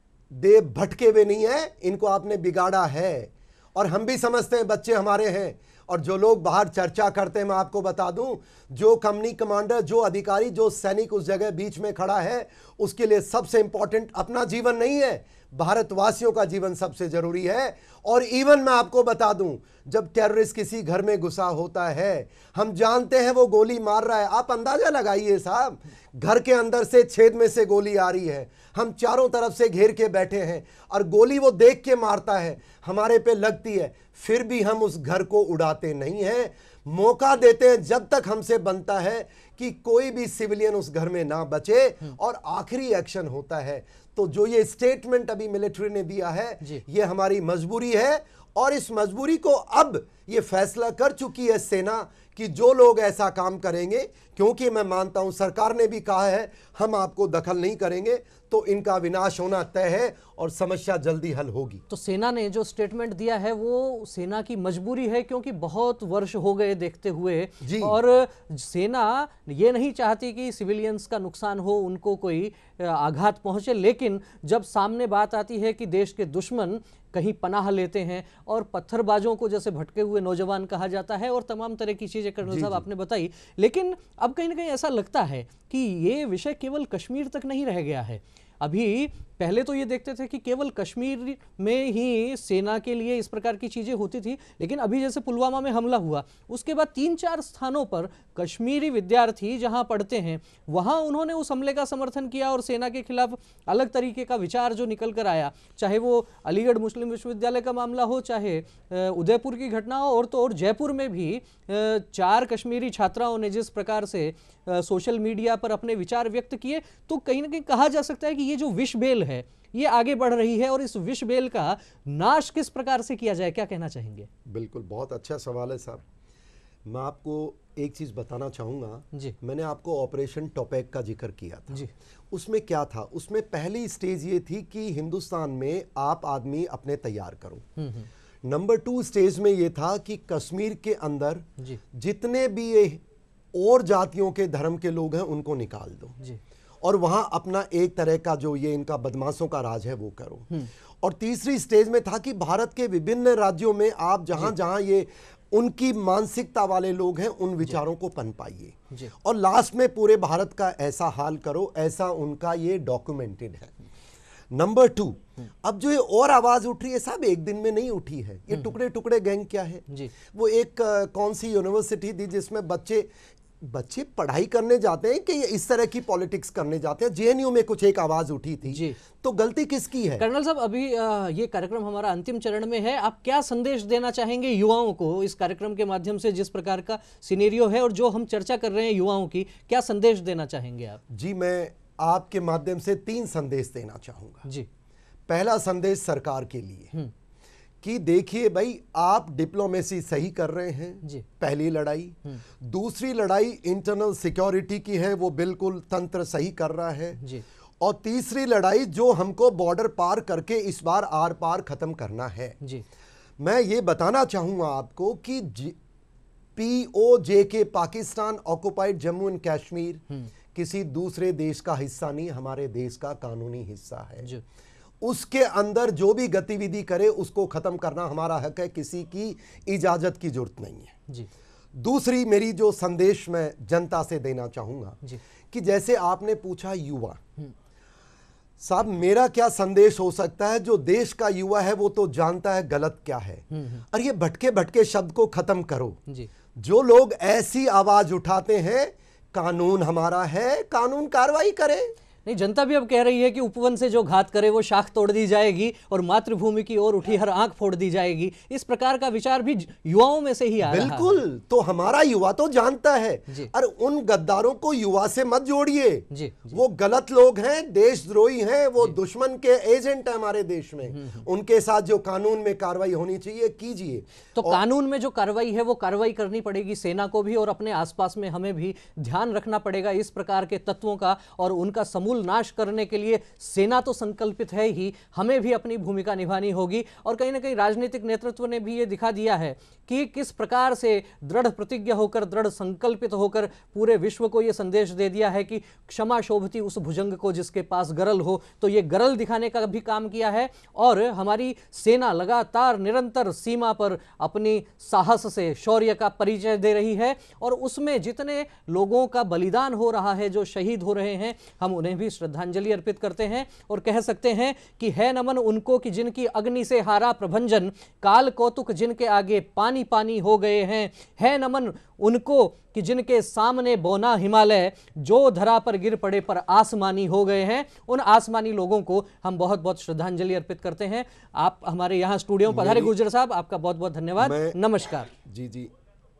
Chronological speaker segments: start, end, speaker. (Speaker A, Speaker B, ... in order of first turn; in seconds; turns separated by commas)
Speaker A: 0.3-61.8, Speaker B: 61.9-124.3, Speaker A: 67.6-68.0, Speaker A: 82.4-82.8, Speaker A: 124.4-126.0, Speaker A: 126.8-137.7, Speaker B: 137.8-138.1, Speaker A: 138.4-143.0, Speaker A: 143.5-146.2, Speaker A: 146.8-163.7, Speaker A: 164.5-173.1, Speaker A: 173.6-180.2, Speaker B: 178.7-178.9, Speaker B: 180.2-191.0, Speaker A: 191.1-194.4, Speaker A: 195.3-196.9, Speaker A: 197.8-207.2, Speaker B: 207.2-207.4, Speaker A: 207.8-212.6, Speaker A: 213.4-215.8, Speaker A: 216.6-224.3, Speaker A: 225.0-230.9, Speaker A: 231.7-237.2, Speaker A: 238.6-246.0, Speaker B: 243.5-243.8, Speaker A: 246.5-251.9, Speaker B: 252.2-261.2, Speaker A: 260.6-274.6, Speaker B: 266.1-266.6, Speaker B: 270.9-271.2, Speaker B: 274.4-335.1, Speaker A: 332.4-332.9, Speaker A: 334.2-334.6, Speaker A: 335.2-335.7